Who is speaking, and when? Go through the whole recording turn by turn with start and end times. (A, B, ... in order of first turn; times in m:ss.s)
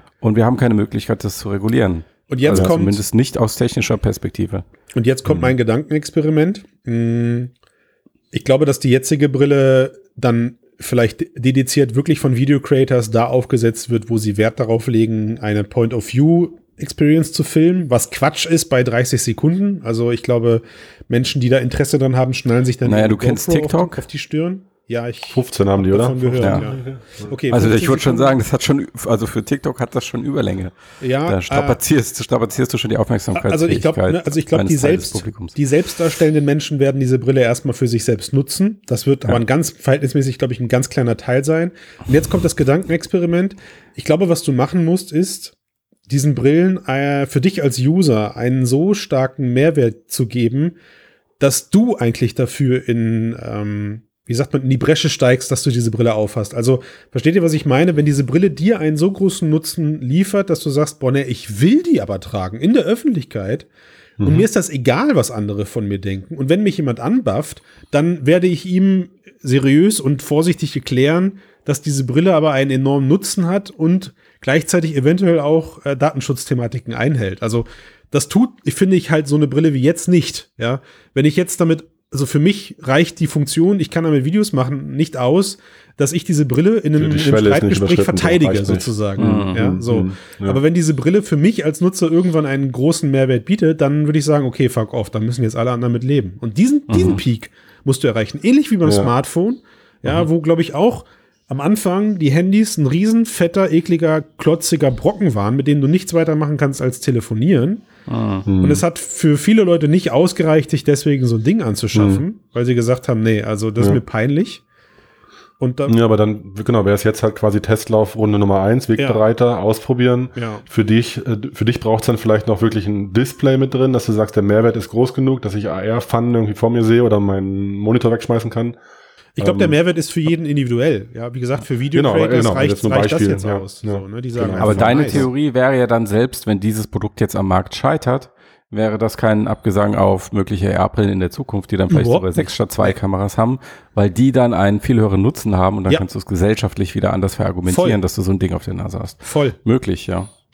0:00.2-0:04.6 A
0:02.3-0:03.0 B
0:04.9-0:07.5 B
0:05.3-0:05.5 C
0:08.3-0:28.4 B
0:22.8-0:24.0 A
0:25.3-0:27.3 C
0:27.5-0:35.6 A
0:31.0-0:31.8 B
0:33.3-0:45.5 B
0:46.1-0:50.8 B
0:51.4-1:03.7 B
1:04.2-1:04.4 C
1:04.2-1:47.9 B
1:27.0-1:30.6 C
1:29.2-1:29.6 A
1:36.9-1:37.2 A
1:38.8-1:39.1 C
1:48.1-1:48.4 A
1:48.4-1:48.8 C
1:48.6-1:54.6 B
1:51.9-1:52.2 C
1:55.6-1:56.0 B
1:55.9-2:08.8 C
1:59.0-1:59.2 B
2:00.4-2:00.6 B
2:09.4-2:15.2 B
2:09.4-2:09.7 C
2:11.9-2:15.3 C
2:14.6-2:30.3 A
2:21.9-2:23.0 B
2:27.7-2:28.0 B
2:29.2-2:29.6 B